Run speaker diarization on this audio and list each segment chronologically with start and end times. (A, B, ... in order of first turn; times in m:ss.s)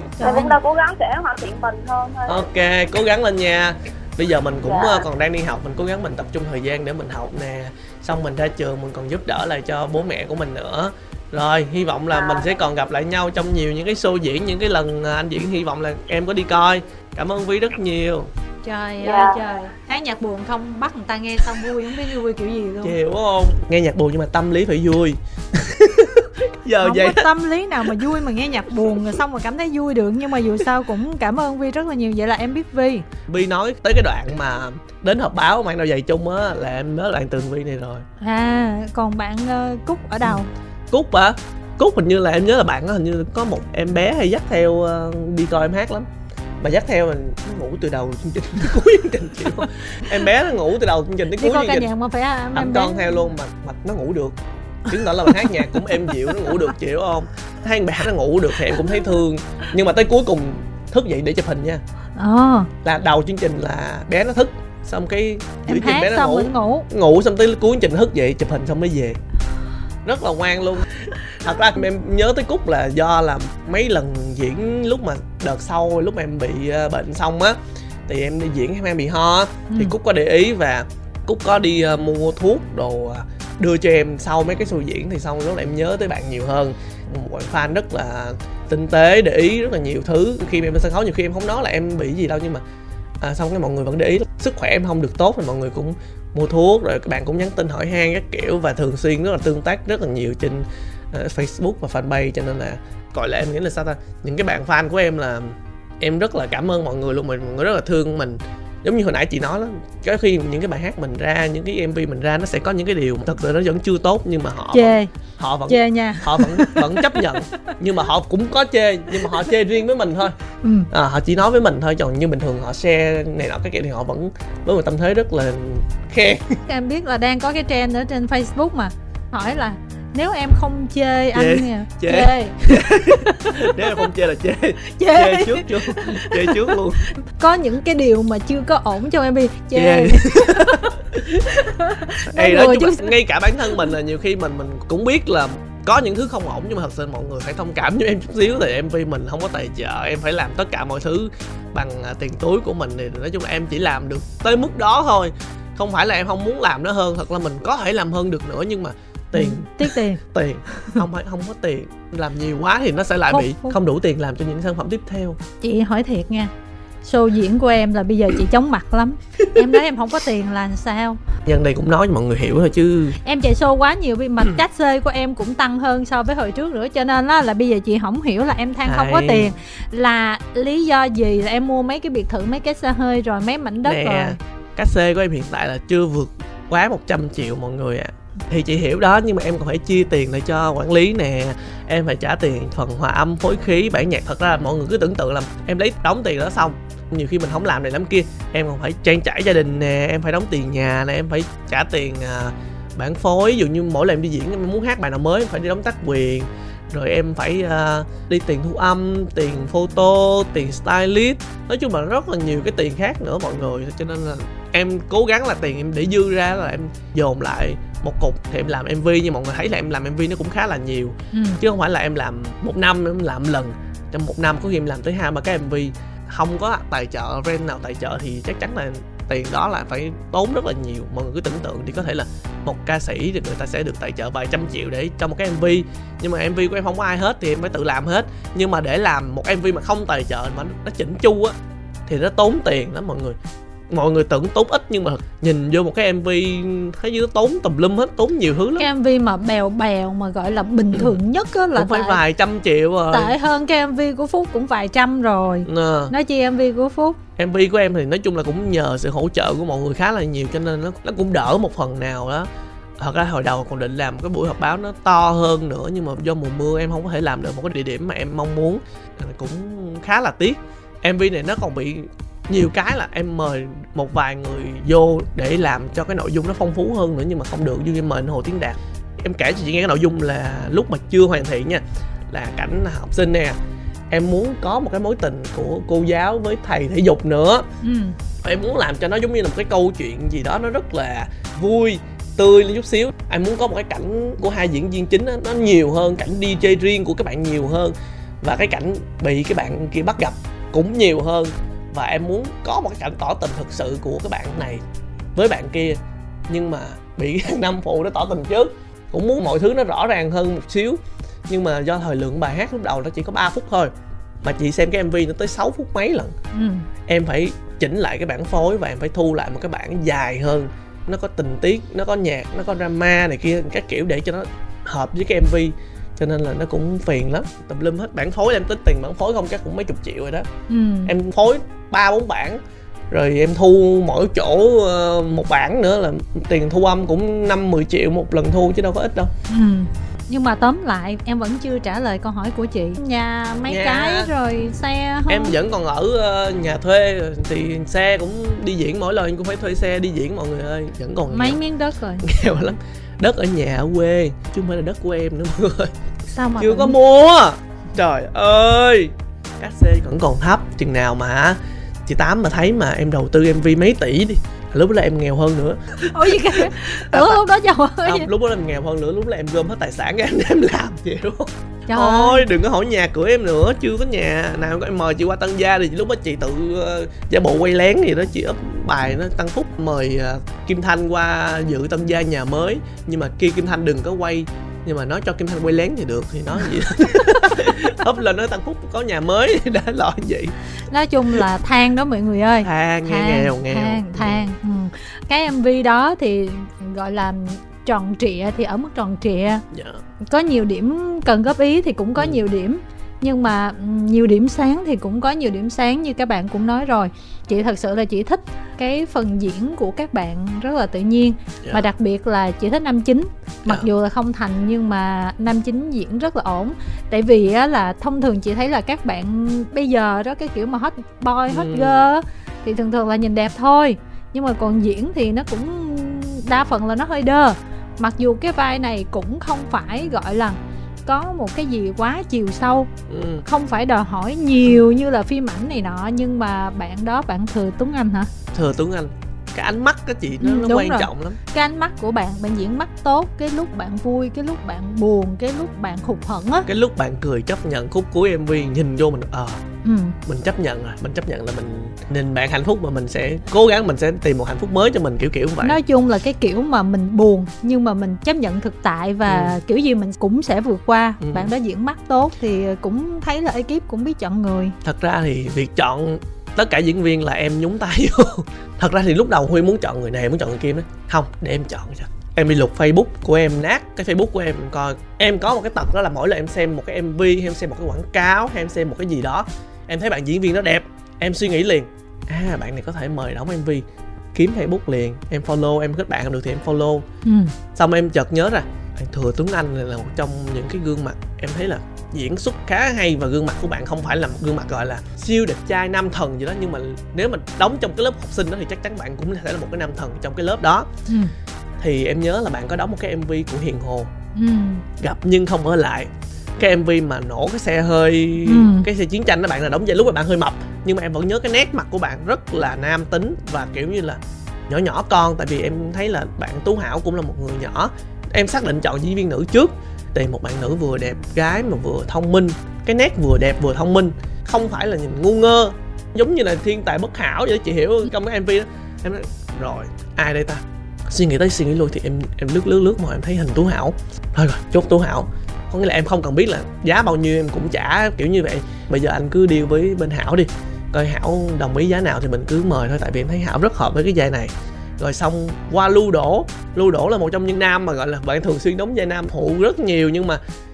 0:00.2-0:00.6 A
0:00.2-0:02.4 B
0:02.3-0:18.3 C
0:04.7-0:05.0 B
0:12.1-0:12.4 B
0:18.6-0:23.0 A
0:19.0-0:19.4 B
0:22.8-0:27.3 C
0:26.8-0:33.1 A
0:33.3-0:38.1 C
0:38.2-0:40.5 A
0:40.2-0:46.1 C
0:46.6-0:51.9 C
0:51.4-0:53.1 A
0:52.5-1:01.8 C
1:02.2-1:02.7 A
1:02.8-1:09.2 C
1:05.7-1:06.9 A
1:10.0-1:32.6 C
1:19.7-1:20.0 A
1:33.2-2:00.4 C
1:54.7-1:55.1 A
1:55.7-1:57.4 A
1:59.2-1:59.5 A
2:00.6-2:00.9 A
2:00.9-2:06.6 C
2:06.7-2:14.0 A
2:11.3-2:17.1 C
2:14.9-2:23.1 A
2:19.7-2:21.6 C
2:22.2-2:45.4 C
2:39.3-2:40.2 A
2:43.3-2:43.8 A
2:45.6-2:46.5 A
2:47.0-2:51.2 A
2:51.5-2:53.2 C
2:53.2-3:04.4 A
2:58.8-2:59.5 C
3:03.8-4:01.6 C
3:41.3-3:41.6 A
4:02.1-4:03.4 C
4:03.9-4:08.9 C
4:08.8-4:12.2 A
4:10.9-4:11.2 C
4:11.8-4:13.3 C
4:13.1-4:17.2 A
4:15.6-4:16.1 C
4:17.4-4:22.5 C
4:23.0-4:43.6 C
4:44.1-4:47.7 C
4:47.8-4:48.2 A
4:48.4-5:04.8 C
5:05.4-5:16.3 C
5:16.5-5:16.9 A
5:17.1-5:30.5 C
5:30.7-5:31.1 A
5:31.1-5:39.3 C
5:39.5-5:45.6 A
5:43.7-5:44.3 C
5:45.3-5:51.6 C
5:51.3-5:52.3 A
5:52.2-5:55.9 C
5:56.3-5:57.0 A
5:56.6-6:07.4 C
6:06.0-6:08.3 A
6:08.0-6:30.5 C
6:11.9-6:12.5 A
6:30.9-6:39.6 A
6:32.6-6:34.4 C
6:39.7-6:40.0 C
6:40.3-7:12.9 A
7:01.5-7:02.1 C
7:13.1-7:13.4 C
7:13.4-7:18.3 A
7:18.5-7:21.4 C
7:20.4-7:26.7 A
7:26.7-7:29.6 C
7:29.8-7:30.2 A
7:30.2-7:35.8 C
7:35.6-7:44.8 A
7:39.3-7:39.6 C
7:41.2-7:41.5 C
7:44.8-8:07.1 C
8:07.2-8:07.6 A
8:07.8-8:20.9 C
8:21.1-8:21.3 A
8:21.8-8:24.1 C
8:24.4-8:24.8 A
8:25.0-9:10.4 C
8:28.5-8:28.9 A